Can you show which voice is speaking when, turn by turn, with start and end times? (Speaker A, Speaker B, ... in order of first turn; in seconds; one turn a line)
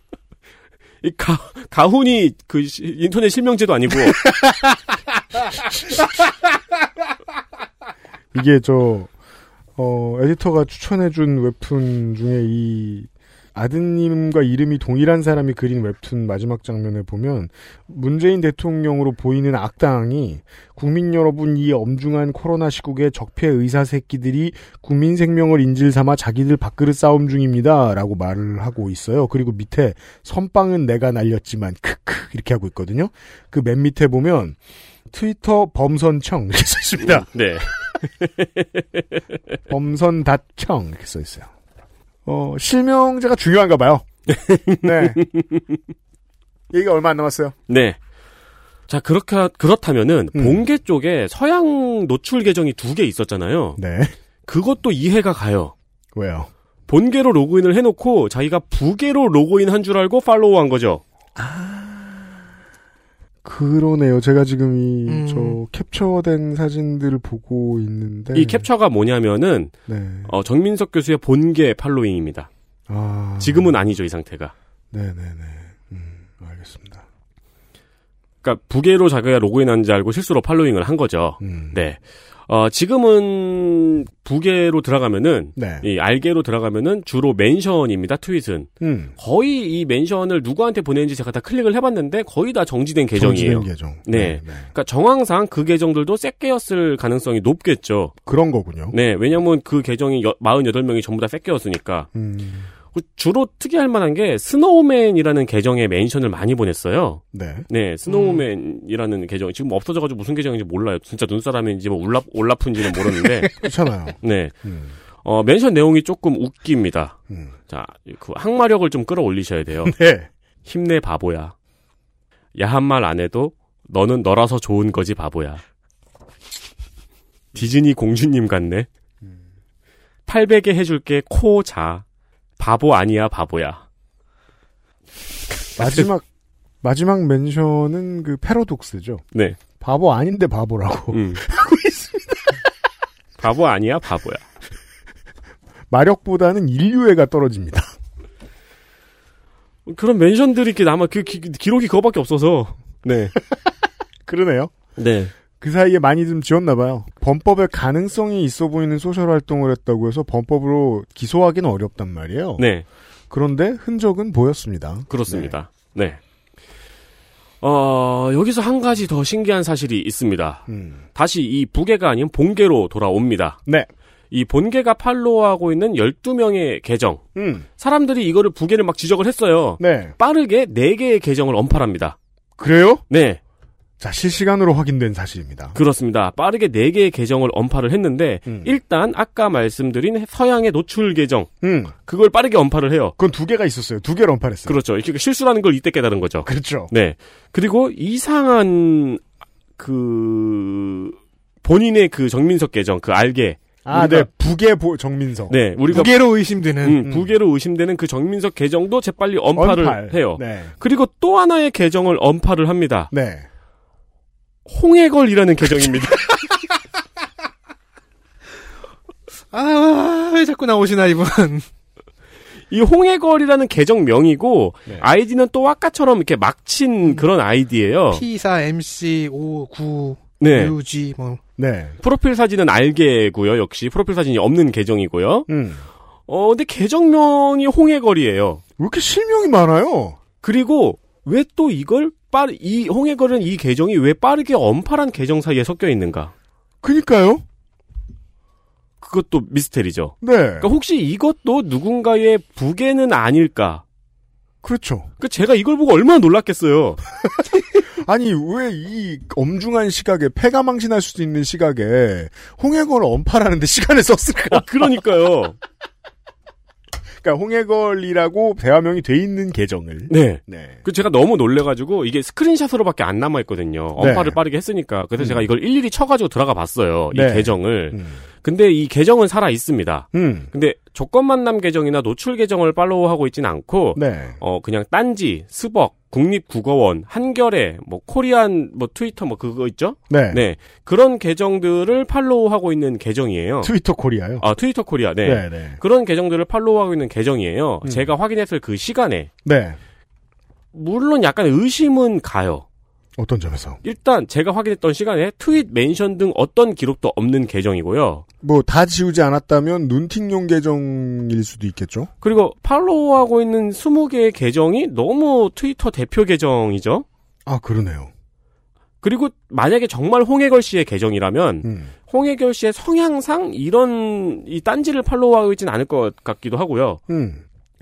Speaker A: 1.0-4.3
Speaker B: 4.2-4.8
Speaker B: 5.6-6.1
Speaker B: 8.3-9.1
Speaker B: 9.8-34.6
Speaker B: 35.1-37.3
Speaker A: 37.1-39.0
Speaker B: 39.7-41.5
Speaker B: 42.3-44.1
Speaker A: 44.3-45.8
Speaker B: 44.8-45.2
Speaker B: 46.7-47.5
Speaker A: 47.7-48.0
Speaker A: 48.9-53.8
Speaker B: 50.3-50.6
Speaker B: 53.8-54.2
Speaker A: 54.5-55.7
Speaker B: 56.1-56.5
Speaker A: 56.9-61.0
Speaker B: 61.4-62.4
Speaker B: 63.5-68.7
Speaker C: 65.1-65.6
Speaker A: 68.3-69.8
Speaker B: 69.9-70.3
Speaker A: 70.3-72.5
Speaker B: 72.9-73.7
Speaker A: 73.4-74.5
Speaker B: 74.9-77.0
Speaker A: 78.4-98.1
Speaker B: 81.4-81.8
Speaker B: 85.6-85.9
Speaker B: 88.8-89.1
Speaker B: 93.2-94.7
Speaker B: 98.3-99.0
Speaker A: 98.9-102.1
Speaker B: 102.1-102.7
Speaker A: 102.9-113.5
Speaker B: 107.3-107.7
Speaker C: 108.1-108.4
Speaker B: 113.6-114.9
Speaker A: 114.2-114.5
Speaker A: 115.2-117.2
Speaker A: 117.7-119.9
Speaker B: 119.8-120.3
Speaker A: 120.7-121.5
Speaker A: 122.6-125.6
Speaker A: 127.5-128.9
Speaker A: 130.3-132.0
Speaker A: 132.6-133.8
Speaker B: 135.8-136.2
Speaker A: 135.8-136.1
Speaker B: 136.8-139.2
Speaker A: 139.3-139.6
Speaker B: 139.8-142.5
Speaker A: 141.1-141.4
Speaker A: 143.4-144.4
Speaker B: 145.9-147.9
Speaker A: 149.9-153.4
Speaker B: 154.3-154.7
Speaker A: 155.0-155.3
Speaker B: 155.6-162.6
Speaker A: 162.6-162.9
Speaker B: 163.3-165.6
Speaker A: 165.1-166.2
Speaker A: 167.6-173.6
Speaker B: 170.7-171.0
Speaker A: 174.3-177.2
Speaker B: 177.4-177.7
Speaker A: 177.8-182.2
Speaker B: 179.8-180.2
Speaker B: 182.6-183.0
Speaker A: 183.1-183.4
Speaker B: 184.0-185.8
Speaker A: 185.8-191.5
Speaker B: 188.5-188.8
Speaker B: 191.6-191.9
Speaker A: 192.1-193.2
Speaker B: 193.2-194.8
Speaker A: 194.7-199.2
Speaker B: 196.4-196.9
Speaker A: 199.8-204.3
Speaker B: 203.8-206.0
Speaker A: 205.5-206.2
Speaker C: 205.9-207.0
Speaker A: 206.8-213.1
Speaker B: 209.6-210.7
Speaker B: 213.1-213.5
Speaker A: 214.7-216.3
Speaker C: 219.5-221.7
Speaker A: 222.7-228.2
Speaker C: 228.1-231.4
Speaker A: 230.4-230.7
Speaker B: 231.6-232.0
Speaker A: 232.0-235.5
Speaker B: 235.5-235.8
Speaker A: 236.3-238.6
Speaker B: 238.8-240.2
Speaker A: 240.4-246.3
Speaker B: 246.8-247.4
Speaker A: 249.0-253.8
Speaker B: 250.2-250.7
Speaker B: 254.6-255.1
Speaker A: 255.2-257.0
Speaker B: 257.9-264.7
Speaker A: 264.5-265.6
Speaker B: 267.2-270.8
Speaker A: 270.1-293.7
Speaker B: 274.0-274.4
Speaker B: 275.2-275.4
Speaker B: 277.1-278.2
Speaker B: 280.1-280.5
Speaker B: 283.9-284.4
Speaker B: 290.1-290.4
Speaker B: 293.6-294.5
Speaker A: 294.4-299.3
Speaker B: 295.2-295.8
Speaker B: 297.8-298.1
Speaker B: 299.4-299.8
Speaker A: 300.7-302.6
Speaker B: 303.2-303.8
Speaker A: 303.8-308.2
Speaker B: 308.4-312.1
Speaker A: 312.2-317.1
Speaker B: 317.5-318.1
Speaker A: 319.0-327.0
Speaker B: 321.6-321.9
Speaker B: 327.1-327.4